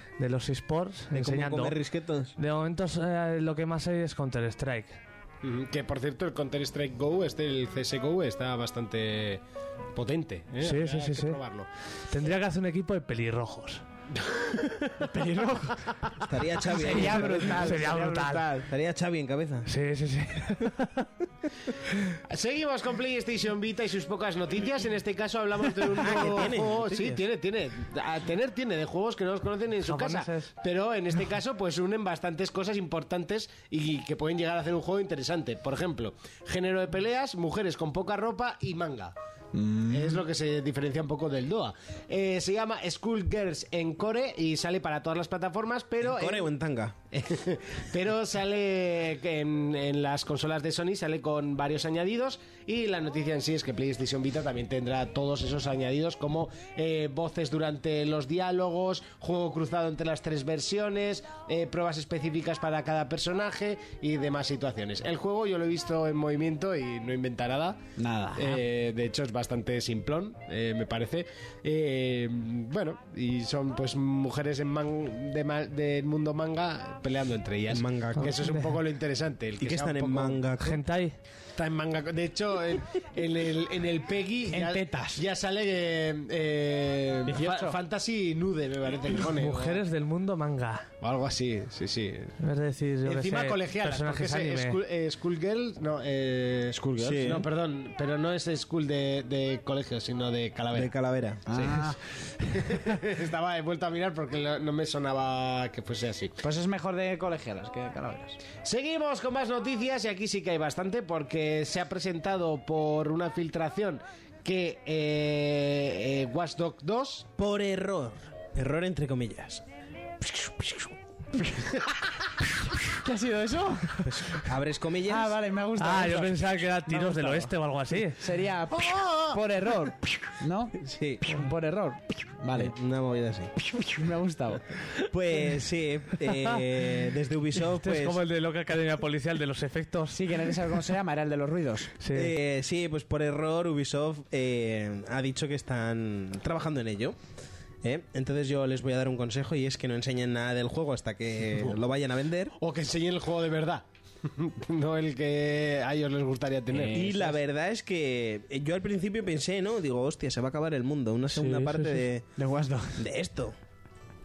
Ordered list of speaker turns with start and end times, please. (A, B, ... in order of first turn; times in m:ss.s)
0:00.2-0:01.8 A
0:01.1-0:02.3 B
0:02.4-0:05.0 A
0:05.4-0:09.4 C
0:10.0-0:11.7 C
0:10.6-0:11.4 A
0:12.1-0:13.8 A
0:14.1-0:14.8 C
0:15.0-0:15.9 D
0:16.3-0:18.0 B
0:16.8-0:18.6 D
0:17.1-0:18.5 A
0:18.6-0:19.7 B
0:19.7-0:21.0 A
0:22.3-0:39.1 C
0:26.0-0:26.8 B
0:26.9-0:27.1 A
0:29.8-0:30.5 A
0:39.5-0:40.2 D
0:39.9-0:46.5 C
0:46.0-0:46.9 B
0:47.1-1:07.8 C
1:08.0-1:08.6 D
1:08.4-1:20.4 C
1:17.7-1:18.4 B
1:18.3-1:18.7 A
1:19.6-1:20.8 B
1:20.6-1:21.1 A
1:21.6-1:29.8 C
1:24.5-1:25.2 D
1:27.3-1:27.8 D
1:29.2-1:30.9 A
1:31.0-1:32.3 C
1:32.4-1:34.8 A
1:33.0-1:40.9 C
1:36.7-1:37.4 D
1:37.0-1:37.4 B
1:40.7-1:41.4 B
1:41.5-1:42.0 D
1:42.5-1:46.3 C
1:46.4-1:48.4 D
1:48.6-1:57.3 C
1:57.4-1:59.6 B
2:00.2-2:00.9 B
2:03.0-2:04.4 D
2:04.0-2:05.4 B
2:05.1-2:07.5 D
2:05.8-2:08.2 A
2:08.2-2:12.7 D
2:08.9-2:09.3 C
2:10.8-2:11.2 B
2:12.5-2:13.5 B
2:13.7-2:14.6 D
2:15.1-2:18.2 B
2:16.2-2:16.6 A
2:17.6-2:20.5 A
2:20.1-2:21.9 D
2:22.0-2:22.3 A
2:22.1-2:27.2 B
2:27.8-2:32.5 B
2:32.6-2:37.2 C
2:36.7-2:37.3 D
2:36.9-2:42.2 B
2:41.3-2:43.0 D
2:43.0-2:43.6 B